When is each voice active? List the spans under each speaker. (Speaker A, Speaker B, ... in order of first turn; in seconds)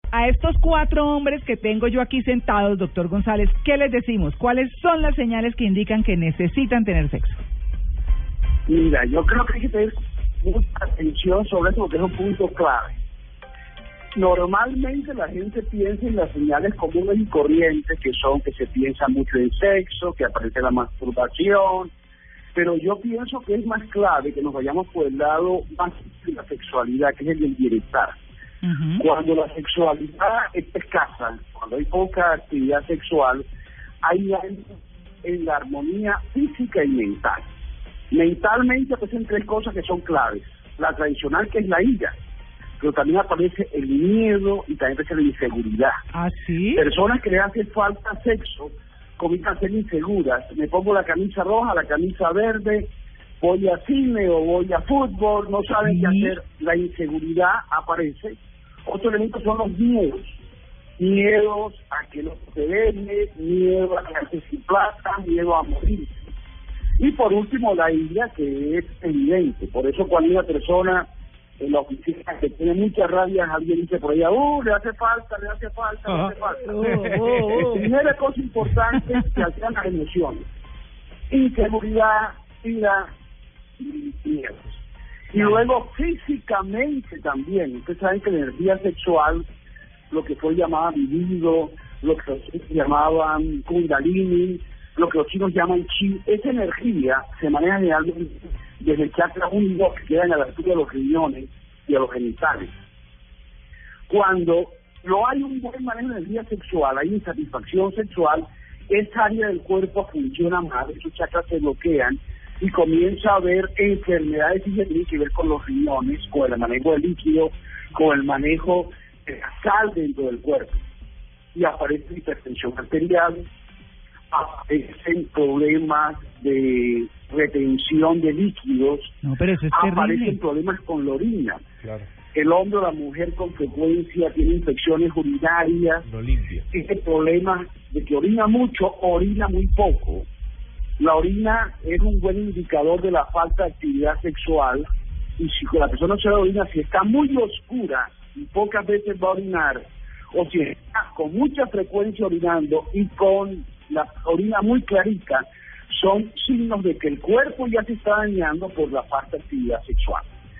Speaker A: 0.1-7.4, 28.6-29.0, 46.1-46.8, 55.8-56.4, 76.6-77.9, 85.4-85.6, 129.2-130.4
Speaker B: 8.7-13.0, 14.1-21.9, 22.5-28.2, 29.0-33.5, 34.0-37.5, 38.1-42.1, 42.8-46.0, 46.8-52.9, 53.4-60.4, 61.0-66.2, 67.0-71.0, 71.6-76.9, 77.5-80.4, 81.3-83.1, 83.8-84.8, 85.3-89.4, 90.1-102.7, 104.1-120.8, 121.5-123.4, 124.3-129.1, 129.7-131.6, 132.3-136.1, 136.7-140.2, 141.0-144.9, 145.4-160.2
Speaker C: 76.1-77.9, 136.0-136.7